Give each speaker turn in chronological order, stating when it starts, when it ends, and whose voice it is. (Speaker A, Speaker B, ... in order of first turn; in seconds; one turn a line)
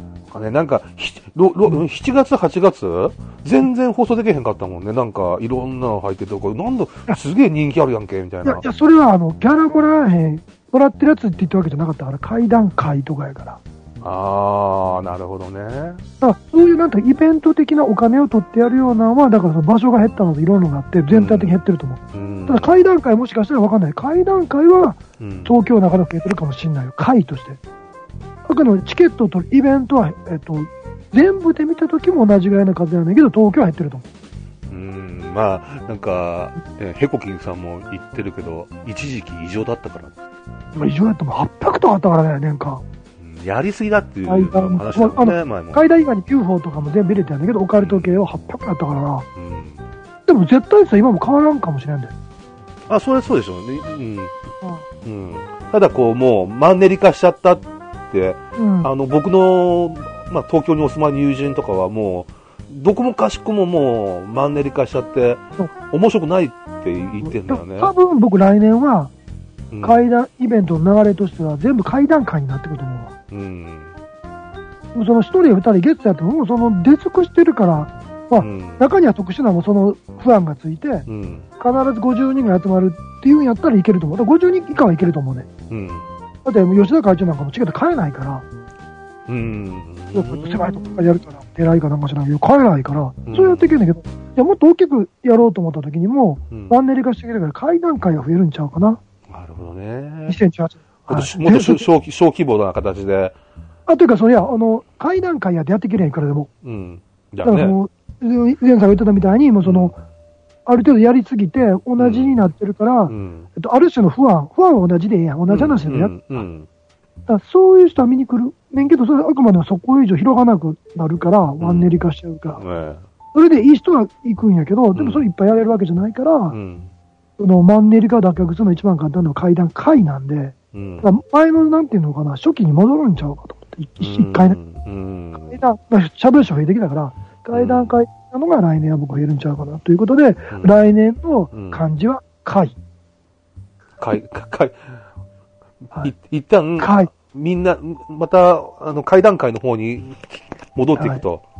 Speaker A: 0.3-8.6
Speaker B: 8.4-13.6
Speaker A: 14.0-16.0
Speaker B: 16.2-27.6
Speaker A: 21.1-22.7
Speaker A: 25.2-25.5
Speaker B: 28.4-34.0
Speaker A: 34.7-40.2
Speaker B: 40.7-42.8
Speaker A: 43.2-45.8
Speaker B: 44.3-49.3
Speaker A: 47.8-48.2
Speaker A: 49.4-49.8
Speaker B: 50.2-52.1
Speaker A: 52.9-54.3
Speaker A: 55.0-67.9
Speaker B: 58.6-58.9
Speaker B: 67.2-69.1
Speaker A: 69.7-70.0
Speaker B: 69.8-73.1
Speaker A: 73.3-73.9
Speaker B: 74.9-81.0
Speaker A: 78.4-78.8
Speaker A: 81.1-81.5
Speaker B: 81.6-85.5
Speaker A: 85.7-86.1
Speaker B: 86.4-88.4
Speaker A: 89.3-91.2
Speaker B: 90.1-99.0
Speaker A: 93.3-93.8
Speaker A: 96.5-96.8
Speaker A: 99.3-100.4
Speaker B: 100.3-101.9
Speaker A: 101.1-103.3
Speaker B: 103.9-106.5
Speaker A: 106.6-107.8
Speaker B: 107.4-110.0
Speaker A: 109.6-109.9
Speaker B: 110.7-116.4
Speaker A: 112.0-112.4
Speaker A: 113.1-113.5
Speaker A: 115.5-116.7
Speaker B: 117.3-122.6
Speaker A: 121.6-121.9
Speaker A: 122.6-123.0
Speaker B: 123.3-126.6
Speaker A: 124.9-125.2
Speaker A: 126.5-126.9
Speaker B: 127.4-134.6
Speaker A: 130.7-131.1
Speaker A: 134.0-135.6
Speaker B: 135.4-142.7
Speaker A: 137.5-137.9
Speaker A: 140.5-140.8
Speaker A: 141.5-141.8
Speaker A: 144.0-144.8
Speaker A: 146.0-151.4
Speaker B: 146.8-147.1
Speaker B: 150.9-151.2